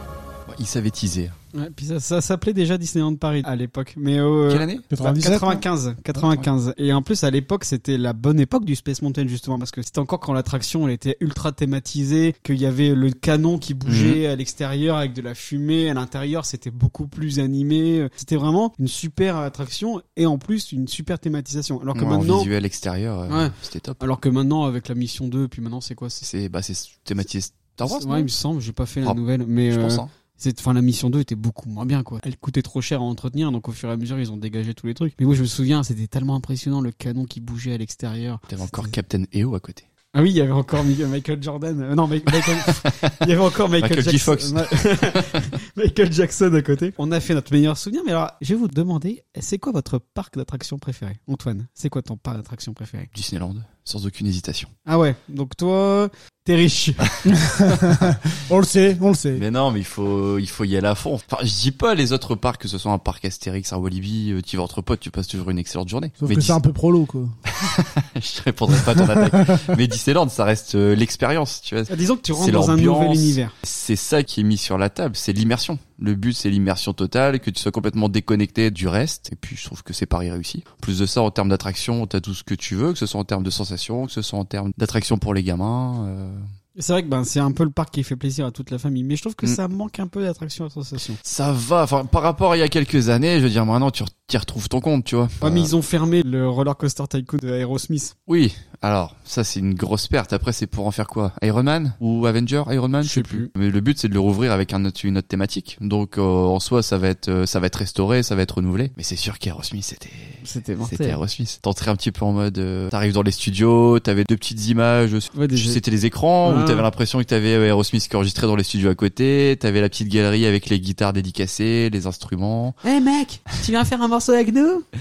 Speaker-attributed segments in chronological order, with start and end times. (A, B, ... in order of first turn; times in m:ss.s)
0:00.5-0:01.4 A
0:01.6-0:22.5 B
0:04.5-0:04.9 A
0:04.9-0:05.6 C
0:13.8-0:14.2 A
0:21.9-0:24.0 A
0:23.3-0:26.2 B
0:26.2-0:28.3 A
0:27.9-0:38.9 B
0:29.0-0:30.1 A
0:38.5-0:39.8 A
0:40.1-0:53.1 B
0:42.4-0:43.2 A
0:43.8-0:45.4 A
0:53.1-0:54.7 A
0:54.9-0:57.1 B
0:57.4-0:59.4 C
0:59.4-1:06.6 A
1:06.2-1:07.4 C
1:07.5-1:26.4 A
1:09.0-1:09.7 C
1:11.9-1:13.6 B
1:26.8-1:31.2 B
1:31.2-1:35.7 A
1:35.4-1:38.2 B
1:38.3-2:02.8 A
1:43.0-1:43.5 B
1:50.4-1:51.2 B
1:55.3-1:55.8 B
1:56.4-1:56.8 B
2:02.8-2:04.8 B